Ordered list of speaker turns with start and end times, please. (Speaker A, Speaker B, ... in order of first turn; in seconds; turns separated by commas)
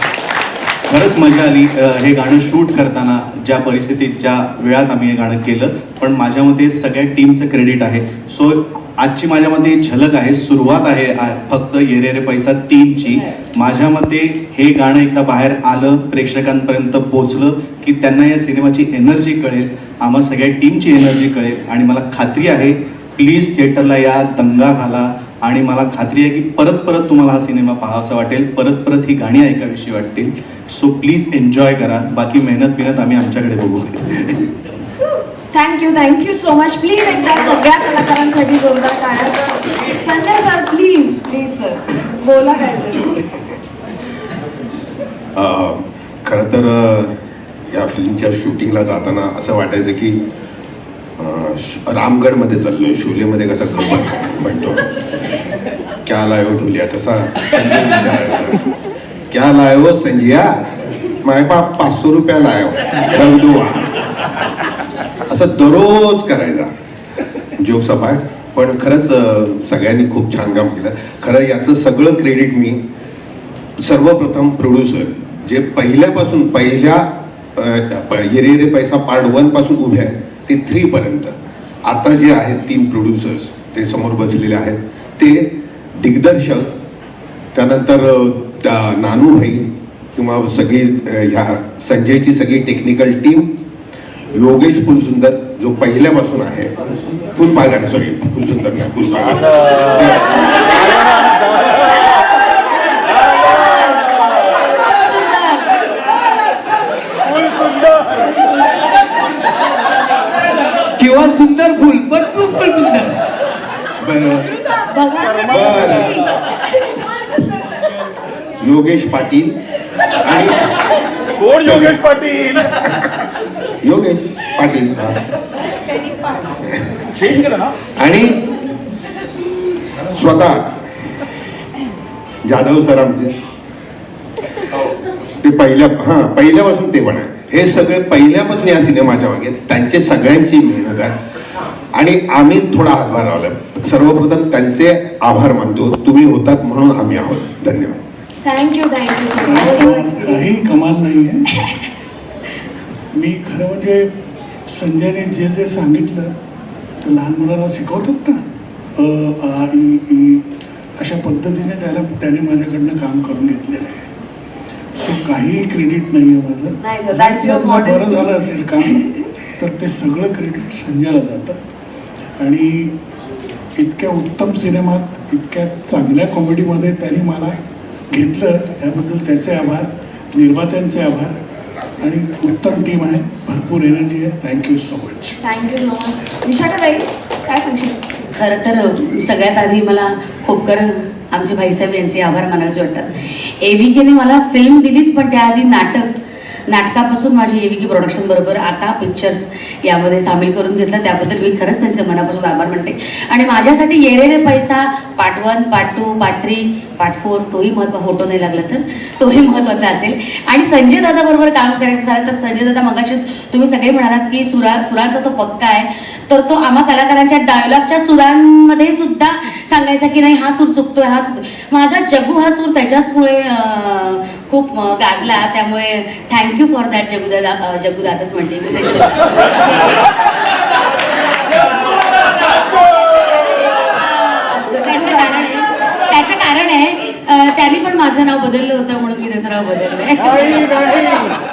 Speaker A: 0.9-34.4, Speaker B: 35.5-43.2, Speaker C: 45.4-47.1, Speaker C: 47.7-50.2, Speaker C: 51.2-54.9, Speaker C: 56.1-58.6, Speaker C: 59.3-60.5, Speaker C: 61.2-63.9, Speaker C: 65.3-66.7, Speaker C: 67.6-72.8, Speaker C: 73.8-81.3, Speaker C: 81.9-85.5, Speaker C: 86.0-86.7, Speaker C: 87.5-93.5, Speaker C: 94.3-96.7, Speaker C: 97.4-100.4, Speaker B: 105.0-105.6, Speaker D: 111.0-113.2, Speaker C: 114.0-114.5, Speaker B: 114.9-116.2, Speaker C: 115.5-116.2, Speaker C: 118.6-119.5, Speaker C: 120.2-120.6, Speaker C: 121.5-123.1, Speaker C: 123.8-125.2, Speaker C: 127.2-128.4, Speaker C: 130.1-130.6, Speaker C: 132.4-133.3, Speaker C: 135.4-141.1, Speaker C: 141.9-148.0, Speaker B: 148.4-150.6, Speaker E: 149.4-151.4, Speaker E: 153.2-154.1, Speaker E: 154.7-156.3, Speaker E: 157.0-158.4, Speaker E: 159.0-160.4, Speaker E: 161.0-164.0, Speaker E: 165.0-169.0, Speaker B: 166.8-168.3, Speaker E: 169.6-171.6, Speaker E: 172.4-172.9, Speaker E: 173.8-177.6, Speaker E: 178.1-181.3, Speaker E: 182.0-185.4, Speaker B: 185.4-188.0, Speaker F: 188.3-193.1, Speaker F: 193.6-196.1, Speaker F: 196.7-229.9, Speaker F: 233.9-241.3